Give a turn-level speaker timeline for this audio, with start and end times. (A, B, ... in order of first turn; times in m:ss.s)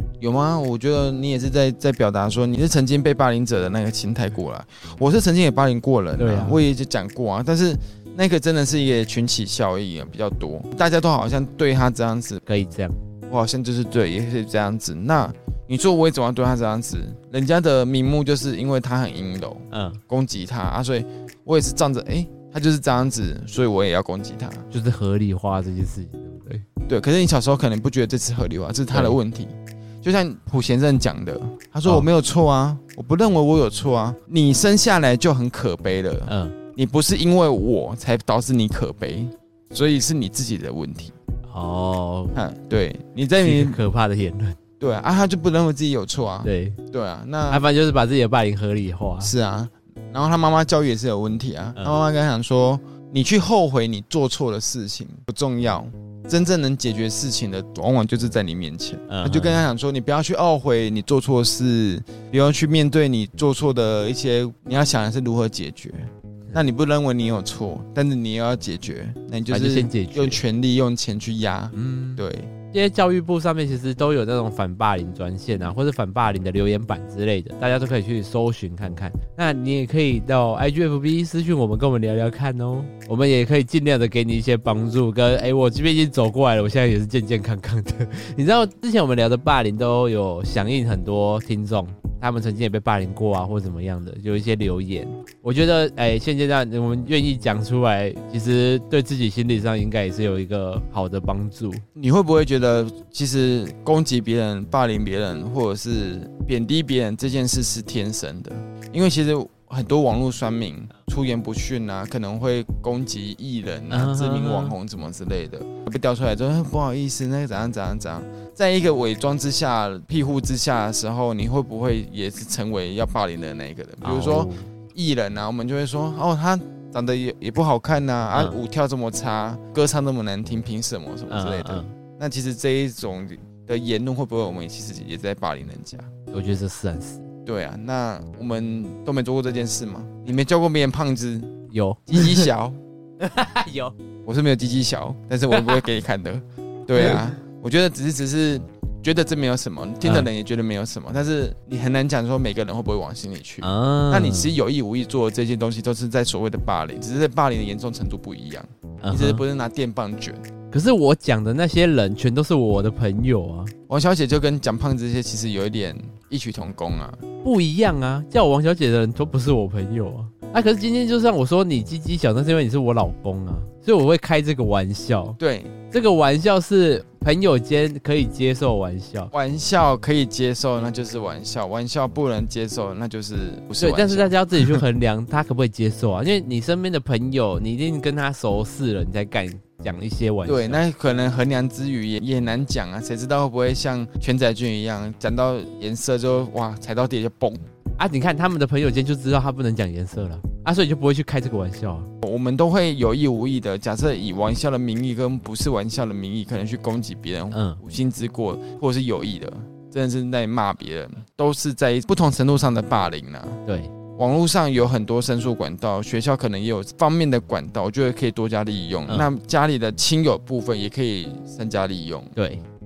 0:00.2-0:12.4 A
0:06.2-0:06.6 B
0:12.4-0:13.0 B
0:13.3-0:24.7 A
0:19.7-0:20.0 B
0:24.7-0:26.6 B
0:26.9-0:41.2 A
0:28.9-0:29.2 B
0:36.3-0:36.6 B
0:41.5-0:42.4 B
0:42.3-0:43.8 A
0:43.4-0:44.6 B
0:44.8-0:47.6 A
0:46.4-0:46.8 B
0:47.5-0:49.3 B
0:49.2-1:12.5 A
0:59.1-0:59.6 B
1:09.5-1:10.4 B
1:11.7-1:41.8 B
1:42.0-2:16.1 A
1:53.9-1:54.7 B
2:04.0-2:04.7 B
2:08.3-2:08.6 B
2:11.3-2:11.9 B
2:16.3-2:17.2 B
2:17.4-2:21.5 A
2:21.7-2:22.5 B
2:22.1-2:22.8 A
2:23.2-2:23.9 B
2:24.2-2:40.4 A
2:25.5-2:25.8 B
2:27.0-2:27.3 B
2:30.0-2:30.3 B
2:33.6-2:34.5 B
2:39.0-2:39.4 B
2:40.7-2:43.7 B
2:43.9-2:47.2 A
2:47.4-2:55.4 B
2:55.4-2:55.7 A
2:55.9-2:59.3 B
2:59.3-3:04.8 A
3:03.8-3:10.8 B
3:10.4-3:17.6 A
3:18.0-3:22.1 B
3:22.2-3:33.6 A
3:27.5-3:27.8 B
3:33.6-3:33.9 B
3:34.2-3:42.4 A
3:42.4-3:42.6 B